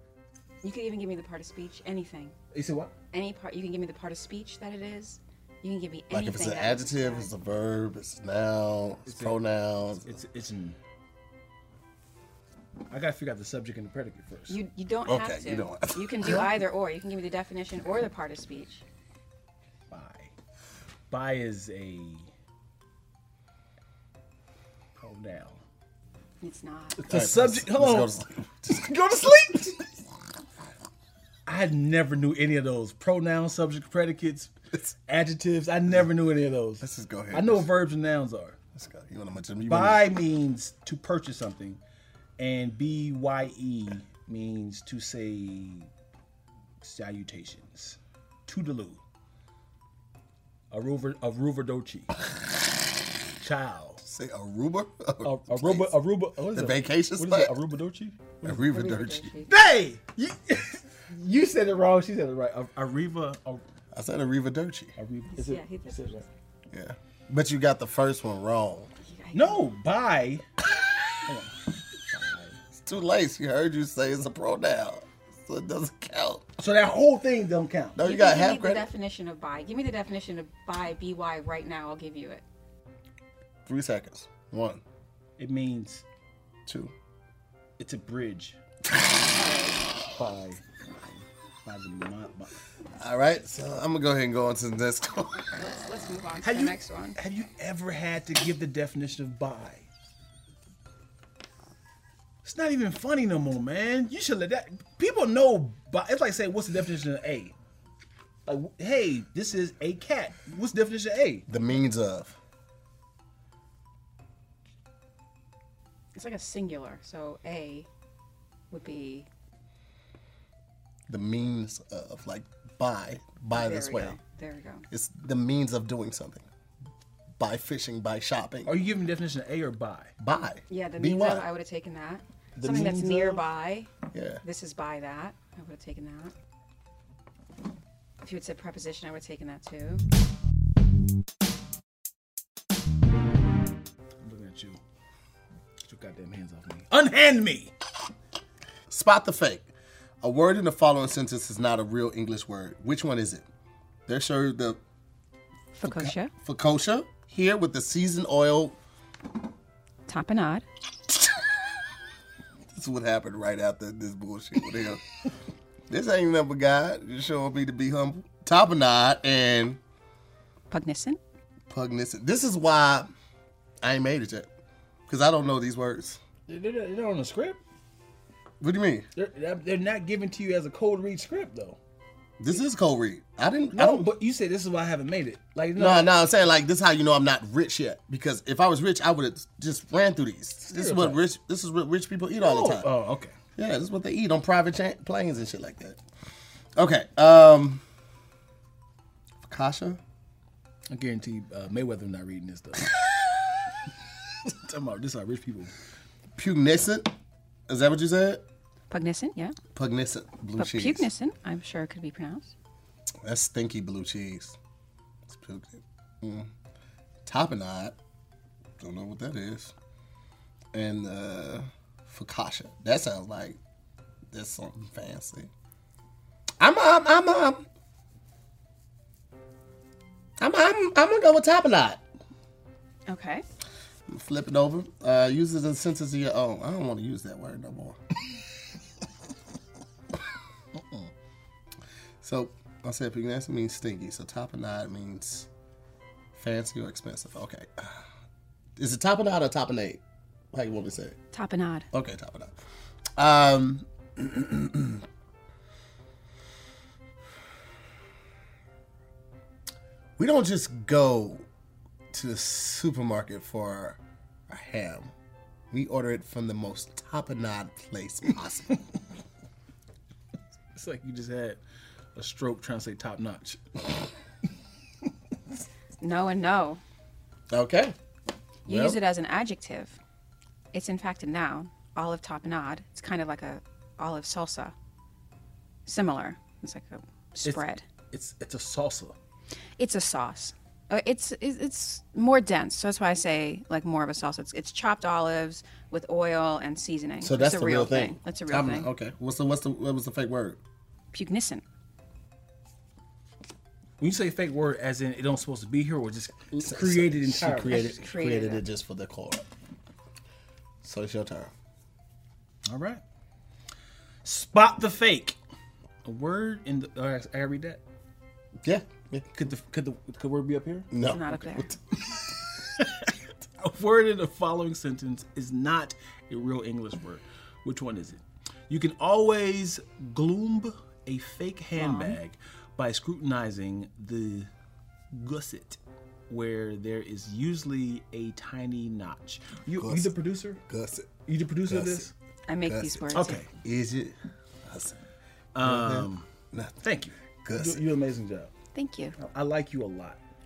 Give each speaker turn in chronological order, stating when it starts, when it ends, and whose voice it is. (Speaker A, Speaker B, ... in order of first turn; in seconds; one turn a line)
Speaker A: 0.6-2.3
Speaker B: 2.5-2.9
Speaker A: 3.1-7.3
Speaker C: 6.1-10.2
Speaker B: 9.1-10.8
Speaker B: 12.9-14.6
Speaker A: 14.5-18.8
Speaker C: 15.1-16.6
Speaker B: 19.9-20.3
Speaker B: 21.1-22.3
Speaker B: 25.0-25.6
Speaker A: 26.4-27.0
Speaker B: 26.9-28.1
Speaker C: 27.1-28.9
Speaker B: 28.7-29.8
Speaker B: 31.4-34.5
Speaker B: 35.1-38.6
Speaker C: 36.8-37.7
Speaker C: 38.7-40.1
Speaker B: 39.6-41.8
Speaker B: 42.4-45.9
Speaker B: 46.8-49.0
Speaker B: 50.7-52.2
Speaker B: 53.4-54.0
Speaker C: 54.0-55.9
Speaker B: 55.2-58.4
Speaker C: 56.5-57.5
Speaker C: 58.4-59.3
Speaker A: 58.5-59.5
Speaker B: 59.5-63.6
Speaker C: 63.9-64.9
Speaker B: 65.0-66.2
Speaker A: 65.3-66.3
Speaker C: 66.7-68.9
Speaker A: 69.0-69.7
Speaker B: 69.3-70.4
Speaker B: 71.2-71.5
Speaker B: 72.1-72.6
Speaker C: 72.8-76.4
Speaker B: 76.6-78.0
Speaker C: 78.0-78.9
Speaker A: 78.0-82.4
Speaker C: 83.7-84.8
Speaker B: 85.4-86.0
Speaker C: 86.7-86.9
Speaker B: 87.8-88.6
Speaker A: 89.3-89.8
Speaker B: 90.1-92.5
Speaker C: 93.0-95.5
Speaker A: 95.5-97.2
Speaker B: 96.4-99.9
Speaker B: 102.4-107.5
Speaker B: 108.5-111.5
Speaker C: 111.5-112.3
Speaker A: 116.1-117.9
Speaker A: 118.7-119.3
Speaker C: 121.1-124.2
Speaker A: 123.5-124.8
Speaker C: 124.9-126.4
Speaker C: 127.4-128.7
Speaker B: 128.6-130.1
Speaker C: 130.2-131.4
Speaker A: 130.7-133.9
Speaker B: 132.6-133.4
Speaker C: 134.1-134.4
Speaker A: 134.4-136.3
Speaker A: 138.2-140.0
Speaker B: 144.2-144.8
Speaker B: 145.8-147.7
Speaker C: 148.9-149.7
Speaker C: 150.2-153.4
Speaker C: 154.1-154.8
Speaker A: 155.8-156.3
Speaker C: 155.8-158.8
Speaker A: 160.1-160.6
Speaker C: 162.7-165.0
Speaker C: 165.9-169.8
Speaker A: 170.7-171.2
Speaker C: 171.7-173.1
Speaker C: 173.8-174.5
Speaker C: 175.1-176.2
Speaker B: 176.5-177.6
Speaker C: 178.6-179.1
Speaker B: 179.2-181.8
Speaker C: 182.4-184.1
Speaker B: 183.7-186.1
Speaker C: 185.8-192.9
Speaker B: 190.7-191.2
Speaker B: 192.4-193.3
Speaker C: 193.6-196.0
Speaker C: 196.8-197.8
Speaker C: 199.4-200.0
Speaker B: 200.9-203.1
Speaker B: 204.4-205.7
Speaker C: 206.3-207.1
Speaker C: 207.7-208.4
Speaker A: 208.9-209.6
Speaker C: 209.7-211.1
Speaker A: 210.6-212.5
Speaker C: 213.2-214.6
Speaker C: 215.3-216.5
Speaker C: 217.2-218.0
Speaker C: 218.8-219.7
Speaker C: 220.7-223.6
Speaker C: 224.3-225.5
Speaker C: 226.6-227.6
Speaker C: 230.4-232.0
Speaker A: 233.1-233.4
Speaker C: 234.1-238.0
Speaker C: 242.2-245.5
Speaker C: 246.3-248.0
Speaker C: 248.8-250.0
Speaker C: 250.5-251.2
Speaker A: 251.3-251.9
Speaker C: 251.9-252.5
Speaker C: 253.2-255.0
Speaker C: 260.2-261.4
Speaker C: 262.1-265.1
Speaker C: 265.7-268.8
Speaker B: 270.7-271.6
Speaker B: 272.1-273.6
Speaker A: 276.0-276.8
Speaker C: 277.5-277.9
Speaker C: 278.6-279.0
Speaker A: 278.6-280.0
Speaker A: 280.7-284.7
Speaker A: 285.9-287.8
Speaker B: 287.4-289.1
Speaker A: 289.8-298.9
Speaker C: 297.2-300.6
Speaker A: 301.1-301.6
Speaker B: 304.0-307.9
Speaker C: 306.6-309.4
Speaker A: 307.6-308.6
Speaker C: 310.8-311.5
Speaker B: 312.7-313.0
Speaker B: 314.2-315.4
Speaker B: 316.0-317.8
Speaker C: 318.6-319.3
Speaker B: 319.3-320.9
Speaker C: 320.9-321.8
Speaker A: 321.0-321.7
Speaker B: 322.1-334.5
Speaker A: 331.8-332.2
Speaker B: 335.1-340.6
Speaker C: 339.8-341.1
Speaker B: 341.2-342.1
Speaker C: 341.7-342.1
Speaker A: 342.5-343.4
Speaker C: 342.6-345.0
Speaker B: 343.1-343.5
Speaker B: 345.5-346.3
Speaker C: 345.6-346.8
Speaker B: 346.8-348.5
Speaker C: 347.4-347.8
Speaker A: 348.7-349.1
Speaker B: 349.1-350.2